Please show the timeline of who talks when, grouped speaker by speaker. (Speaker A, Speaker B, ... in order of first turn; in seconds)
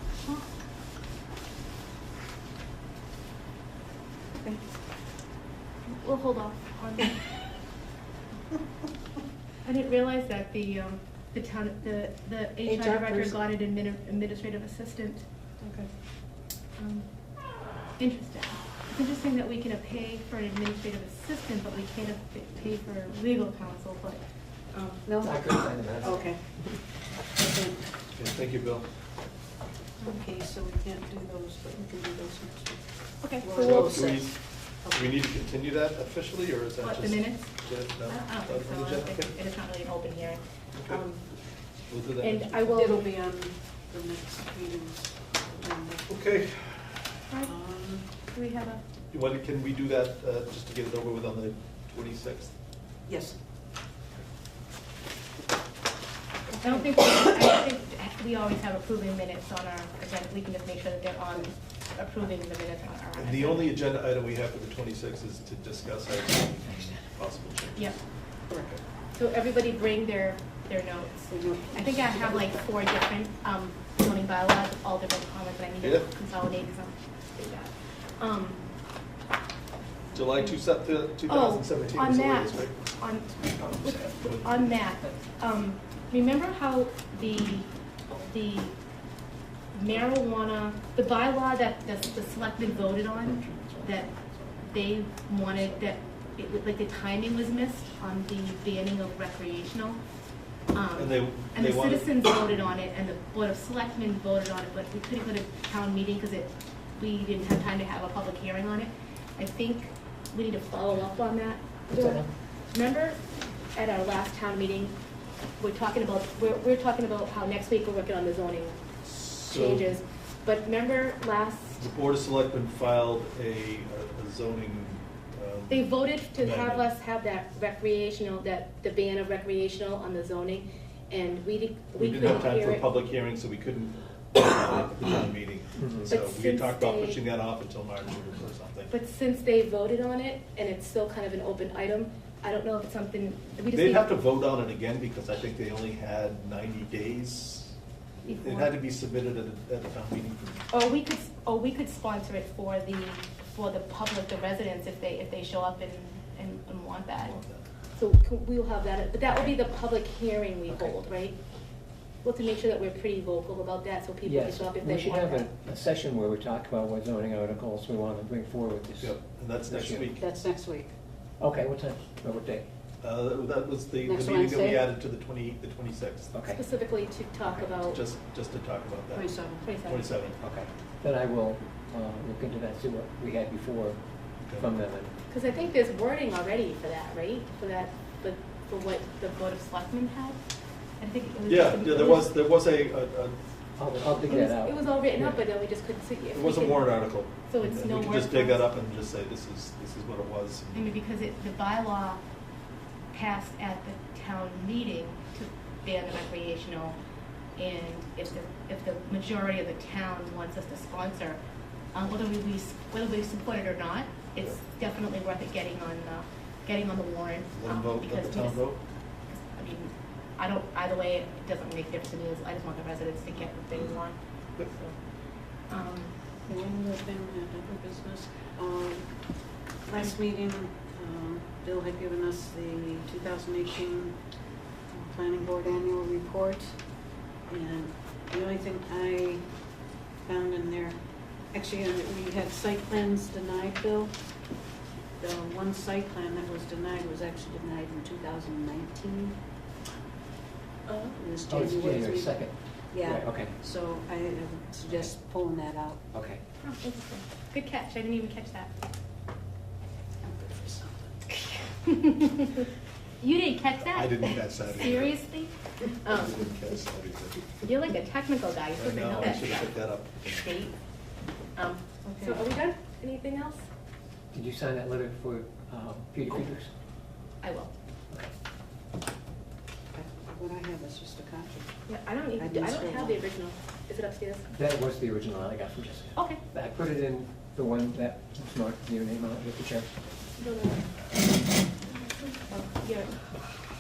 Speaker A: 4.4-4.7, 12.6-13.3, 25.0-25.4, 26.0-26.4, 27.4-27.8, 30.0-34.3, 42.7-46.1, 47.4-48.0, 53.1-53.4, 71.3-72.6, 170.2-170.9, 174.0-175.0, 179.1-179.7, 226.4-229.1, 229.8-234.2, 234.9-236.7, 237.5-239.4, 240.2-241.0, 241.5-244.1, 245.2-249.4, 251.2-256.0, 260.2-261.1, 272.0-272.4, 279.9-281.7, 282.4-283.2
Speaker B: 5.9-7.2, 9.6-15.9, 16.8-17.1, 18.0-24.2, 24.7-25.0, 33.2-33.9, 36.8-37.5, 38.0-41.2, 42.2-43.0, 48.3-48.8, 56.5-63.7, 69.2-78.6, 81.2-88.7, 89.7-94.1, 94.7-100.0, 100.7-113.2, 113.7-114.9, 115.6-121.8, 125.7-132.9, 136.1-137.2, 138.9-144.2, 148.2-148.8, 150.7-157.4, 157.9-161.4, 162.2-165.5, 176.5-178.0, 179.6-180.2, 185.3-190.4, 191.0-192.3, 194.2-198.7, 200.7-202.2, 203.1-207.0, 207.6-211.4, 211.9-218.7, 219.3-224.9, 225.7-226.1, 250.9-251.2, 256.6-258.7, 261.3-262.7, 263.2-266.4, 267.6-270.8, 271.5-273.6, 277.4-277.7, 281.9-284.4, 286.1-286.4, 290.4-290.8, 292.2-293.1
Speaker C: 25.2-26.4, 83.5-84.3, 92.5-94.7, 111.9-112.3, 135.8-136.1, 164.2-170.1, 171.4-172.7, 176.3-176.6, 180.4-184.0, 184.5-185.1, 193.8-195.4, 251.5-253.6, 256.1-256.4, 274.3-276.7, 284.5-289.9
Speaker D: 28.1-28.9, 33.5-39.3, 40.7-41.0, 41.9-43.0, 46.1-47.3, 49.1-52.5, 63.2-67.9, 68.5-68.8, 75.8-76.1, 80.1-82.7, 84.1-84.4, 100.9-102.7, 119.2-119.9, 121.8-126.9, 131.9-138.9, 143.7-147.7, 148.3-150.6, 157.2-157.6, 169.0-170.2, 173.0-176.3, 177.8-180.4, 191.4-193.3, 196.3-201.0, 217.5-218.8, 263.9-265.2, 266.1-267.4, 268.8-270.2